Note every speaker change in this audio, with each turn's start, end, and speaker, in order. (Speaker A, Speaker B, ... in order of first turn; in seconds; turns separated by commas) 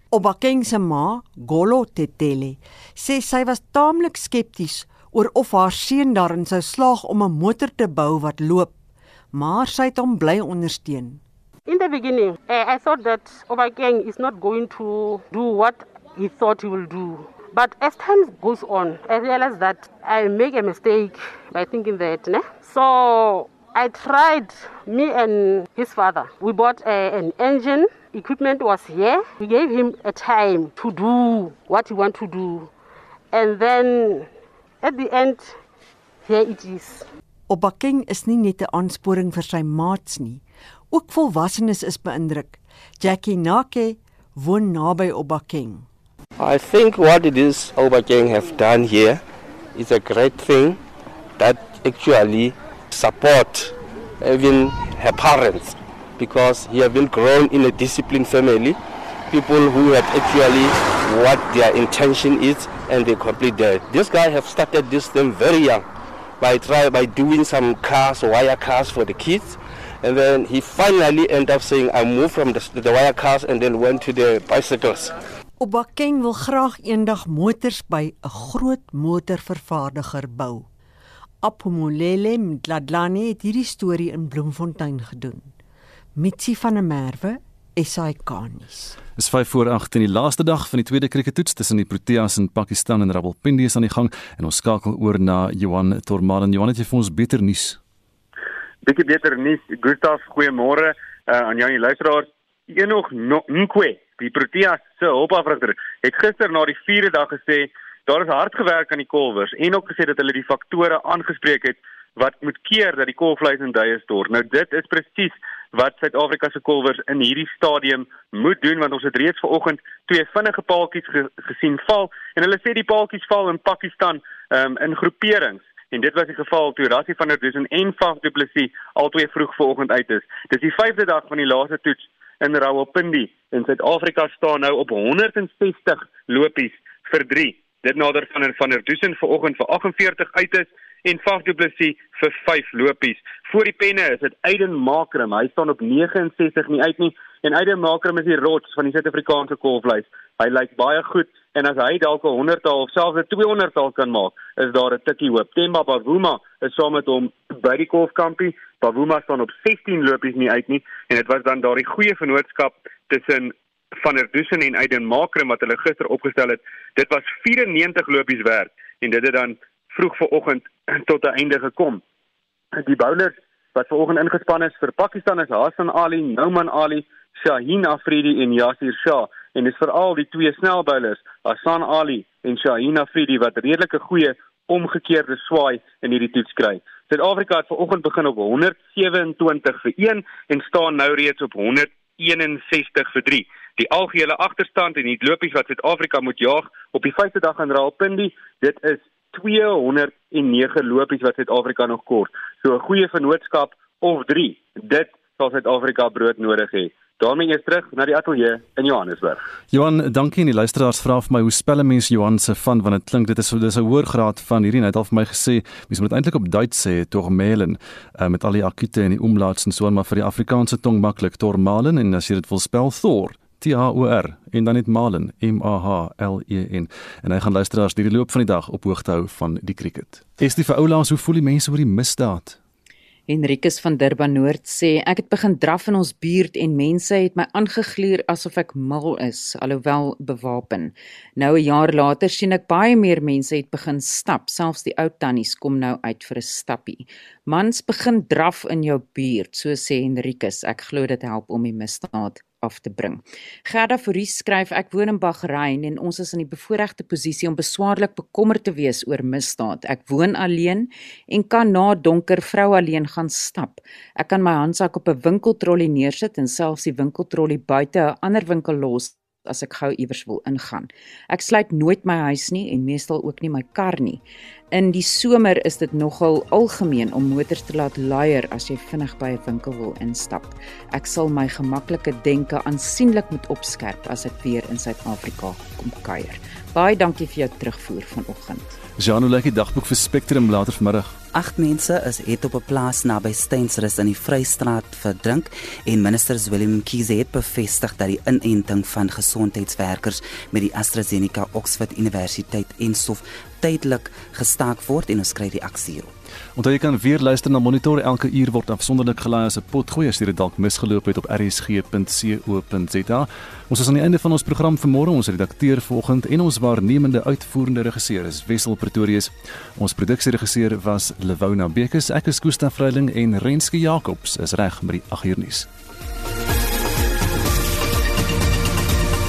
Speaker A: 0.1-8.7, Speaker A: 9.3-11.2, Speaker B: 11.7-32.7, Speaker B: 33.3-34.3, Speaker B: 34.8-35.6, Speaker B: 36.2-37.0, Speaker A: 37.5-45.9, Speaker C: 46.4-49.2, Speaker C: 49.7-50.8, Speaker C: 51.4-58.8, Speaker C: 59.3-65.8, Speaker C: 66.4-75.2, Speaker A: 75.6-80.7, Speaker A: 81.4-85.5, Speaker A: 86.1-89.0, Speaker D: 89.2-97.8, Speaker E: 98.8-172.0, Speaker E: 172.7-209.4, Speaker D: 209.7-232.6, Speaker F: 233.3-274.2, Speaker F: 274.7-288.7, Speaker D: 289.0-291.1, Speaker G: 291.3-306.1, Speaker D: 306.6-325.7